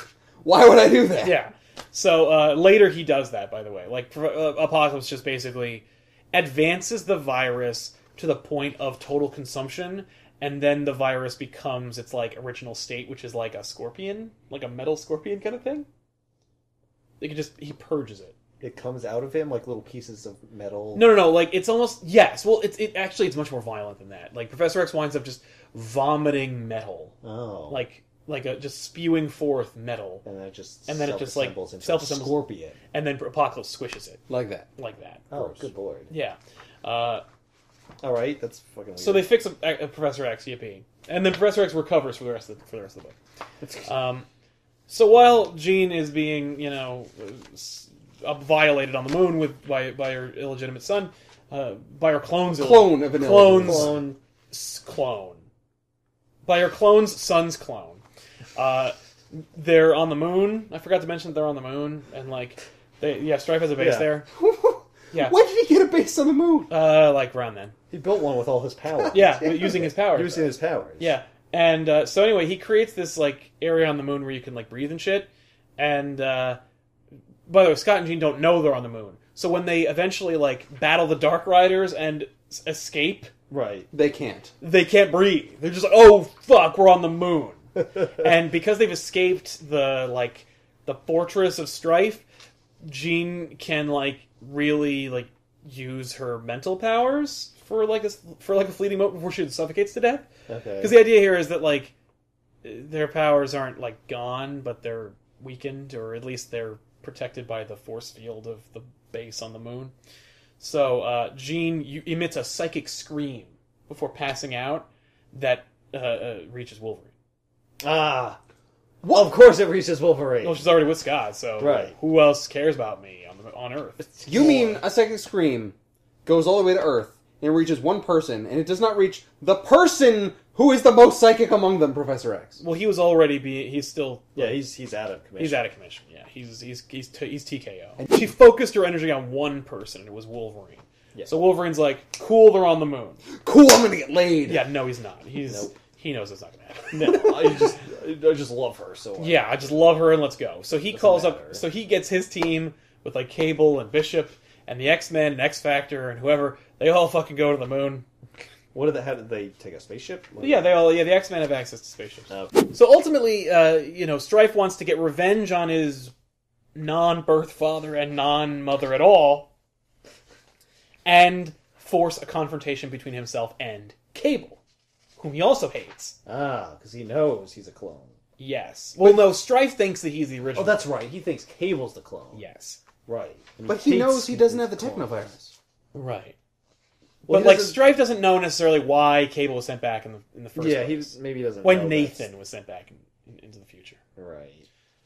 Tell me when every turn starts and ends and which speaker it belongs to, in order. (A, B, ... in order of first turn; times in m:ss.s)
0:00.4-0:01.4 A
0:01.2-0:15.9 B
0:17.2-0:18.3 B
0:18.6-0:21.1 C
0:20.9-0:27.2 B
0:27.2-0:27.8 C
0:27.7-0:30.2 B
0:30.2-0:32.8 C
0:30.9-0:32.4 B
0:32.9-0:34.2 B
0:34.3-0:34.7 A
0:34.8-0:37.2 B
0:35.3-0:36.1 C
0:38.0-0:39.3 C
0:39.0-0:43.2 B
0:43.6-0:43.9 C
0:43.8-0:44.2 B
0:44.9-0:55.4 B
0:52.5-0:53.9 A
0:53.4-0:54.2 C
0:56.4-0:58.0 B
0:58.6-1:04.3 B
1:03.8-1:04.1 C
1:04.3-1:06.7 A
1:06.7-1:07.8 B
1:07.9-1:11.1 C
1:09.1-1:16.6 B
1:17.5-1:23.3 B
1:23.5-1:23.9 C
1:23.9-1:24.5 A
1:24.6-1:32.2 B
1:32.8-1:40.3 B
1:40.5-1:41.0 C
1:40.8-1:41.9 B
1:42.6-1:49.9 B
1:50.6-1:57.1 B
1:57.8-1:58.4 C
1:59.0-1:59.3 A
1:59.1-2:00.6 C
2:00.4-2:04.0 B
2:01.6-2:01.9 C
2:04.0-2:04.8 C
2:04.2-2:12.6 A
2:12.6-2:14.6 B
2:14.4-2:15.6 C
2:15.4-2:23.2 B
2:21.1-2:21.4 C
2:23.4-2:24.7 A
2:24.4-2:27.7 B
2:25.4-2:25.7 C
2:26.9-2:30.0 C
2:29.2-2:38.0 B
2:30.9-2:31.6 C
2:38.7-2:40.7 C
2:40.4-2:46.1 B
2:46.7-2:49.5 B
2:51.0-2:54.6 B
2:55.2-2:56.2 B
2:56.2-2:58.1 C
2:58.4-3:00.8 B
2:59.0-2:59.3 C
3:00.5-3:02.4 C
3:02.3-3:02.8 B
3:03.0-3:05.2 C
3:03.6-3:05.5 A
3:05.9-3:06.4 B
3:07.2-3:07.8 C
3:07.3-3:14.0 B
3:10.6-3:12.2 C
3:14.2-3:14.6 C